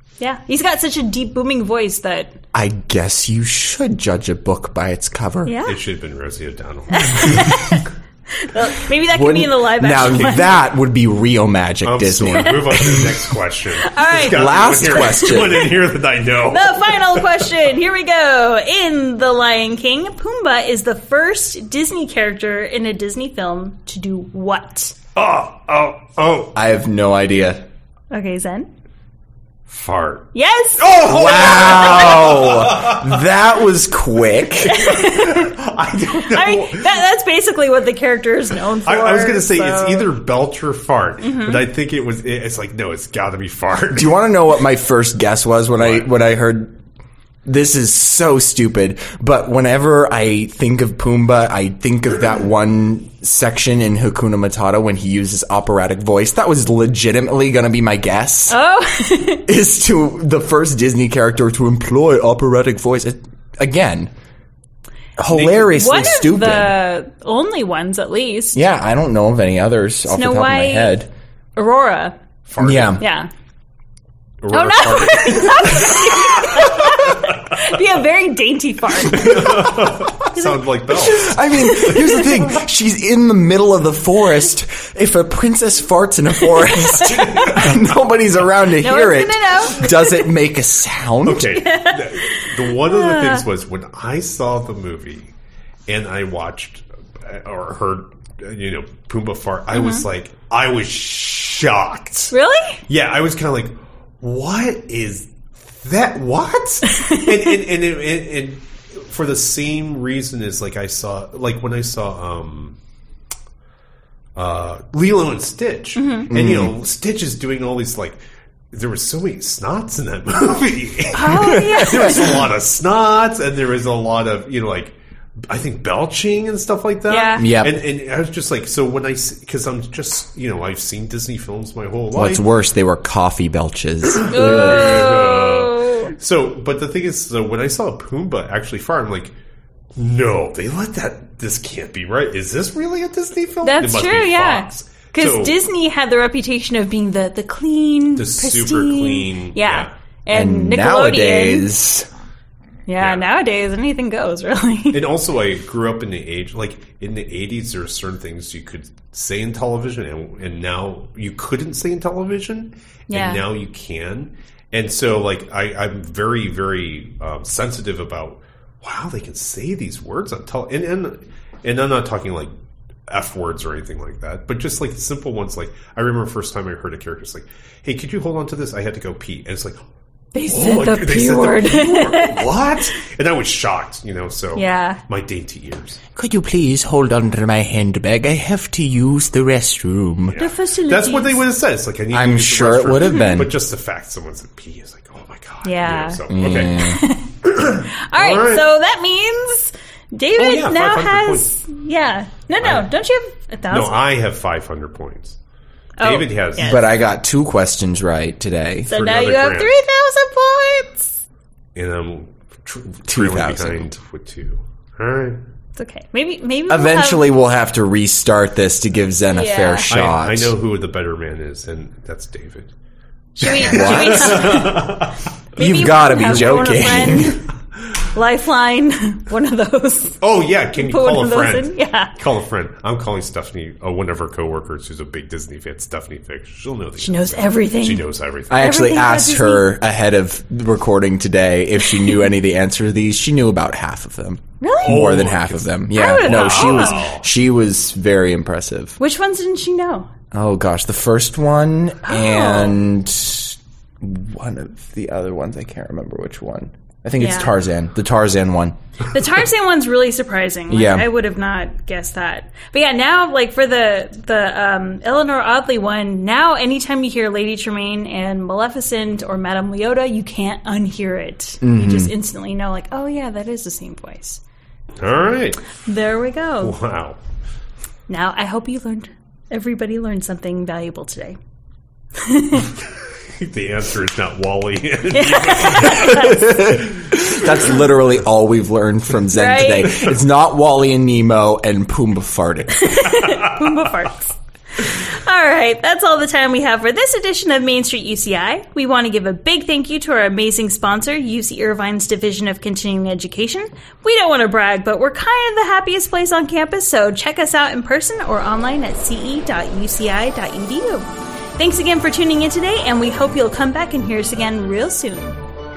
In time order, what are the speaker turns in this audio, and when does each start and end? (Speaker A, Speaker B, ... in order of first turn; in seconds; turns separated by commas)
Speaker A: 0.2-2.4, Speaker B: 2.5-5.5, Speaker A: 5.4-5.8, Speaker C: 5.7-7.5, Speaker A: 6.9-10.5, Speaker B: 9.1-13.2, Speaker C: 11.8-17.5, Speaker A: 13.8-15.8, Speaker B: 14.2-15.7, Speaker A: 16.4-24.9, Speaker C: 25.1-26.5, Speaker B: 26.5-27.6, Speaker A: 28.1-28.7, Speaker C: 29.7-33.0, Speaker A: 30.3-30.9, Speaker B: 30.9-34.9, Speaker C: 34.6-37.0, Speaker A: 34.6-35.5, Speaker A: 36.3-40.1, Speaker C: 38.8-44.2, Speaker A: 41.2-41.6, Speaker B: 43.9-46.8, Speaker C: 45.8-46.1, Speaker B: 47.5-58.6, Speaker A: 58.5-59.4, Speaker B: 59.5-64.1, Speaker B: 65.2-66.8, Speaker C: 65.3-66.1, Speaker A: 65.7-68.6, Speaker B: 68.5-71.1, Speaker A: 70.1-71.0, Speaker A: 71.5-72.2, Speaker C: 72.5-73.0, Speaker B: 72.6-73.0, Speaker A: 73.0-73.3, Speaker C: 74.4-77.2, Speaker A: 74.5-79.7, Speaker C: 79.1-82.4, Speaker B: 79.3-80.1, Speaker A: 80.3-80.6, Speaker B: 80.9-91.6, Speaker C: 87.3-87.7, Speaker A: 88.8-90.2, Speaker C: 91.2-95.3, Speaker A: 91.6-93.4, Speaker C: 95.9-102.3, Speaker A: 99.7-100.0, Speaker A: 102.3-102.8, Speaker C: 102.9-112.8, Speaker A: 106.9-107.3, Speaker C: 114.3-118.2, Speaker A: 116.0-116.3, Speaker B: 116.3-116.7, Speaker C: 118.7-125.0, Speaker A: 121.1-122.5, Speaker B: 121.2-122.3, Speaker C: 125.5-132.4, Speaker A: 127.1-127.5, Speaker B: 127.4-127.8, Speaker B: 132.1-135.0, Speaker C: 134.2-139.3, Speaker A: 134.3-136.1, Speaker C: 139.9-145.6, Speaker A: 143.6-151.7, Speaker C: 148.2-149.9, Speaker B: 150.3-152.1, Speaker A: 152.9-155.0, Speaker C: 153.0-153.2, Speaker C: 154.9-172.5, Speaker A: 163.1-163.4, Speaker C: 173.1-179.8, Speaker A: 180.3-182.5, Speaker C: 180.5-186.0, Speaker A: 184.6-185.0, Speaker B: 186.2-190.4, Speaker C: 190.2-196.9, Speaker A: 190.4-191.4, Speaker B: 192.1-193.6, Speaker A: 195.6-196.2, Speaker B: 196.3-197.0, Speaker A: 196.7-204.0, Speaker C: 197.4-198.7, Speaker C: 200.4-201.5, Speaker C: 202.6-202.9, Speaker C: 203.7-205.4, Speaker A: 206.0-206.8, Speaker C: 206.0-206.8, Speaker B: 206.6-208.9, Speaker A: 208.9-211.2, Speaker C: 208.9-209.7, Speaker C: 211.7-215.4, Speaker B: 213.1-213.9, Speaker A: 215.8-217.3, Speaker B: 216.7-220.5, Speaker A: 219.3-219.9, Speaker C: 219.9-222.7, Speaker A: 223.4-225.0, Speaker C: 223.4-225.2, Speaker B: 223.5-224.7, Speaker B: 225.6-227.4, Speaker A: 225.6-227.4, Speaker C: 225.9-227.2, Speaker A: 228.1-230.2, Speaker C: 230.2-238.7, Speaker A: 230.7-232.1, Speaker A: 237.0-239.7, Speaker B: 238.5-249.0, Speaker A: 241.8-242.2, Speaker A: 244.6-245.2, Speaker C: 244.8-247.2, Speaker A: 245.9-247.1, Speaker A: 249.0-250.1, Speaker B: 250.3-258.8, Speaker A: 252.0-252.8, Speaker A: 257.2-257.5, Speaker A: 259.1-274.4, Speaker B: 260.7-261.1, Speaker B: 271.6-272.1, Speaker C: 275.0-275.6, Speaker A: 275.8-276.8, Speaker C: 276.6-277.2, Speaker A: 278.1-281.4, Speaker A: 282.2-282.7, Speaker C: 283.4-286.4, Speaker A: 285.1-286.7, Speaker B: 285.9-293.0, Speaker A: 289.3-290.1, Speaker A: 292.7-315.4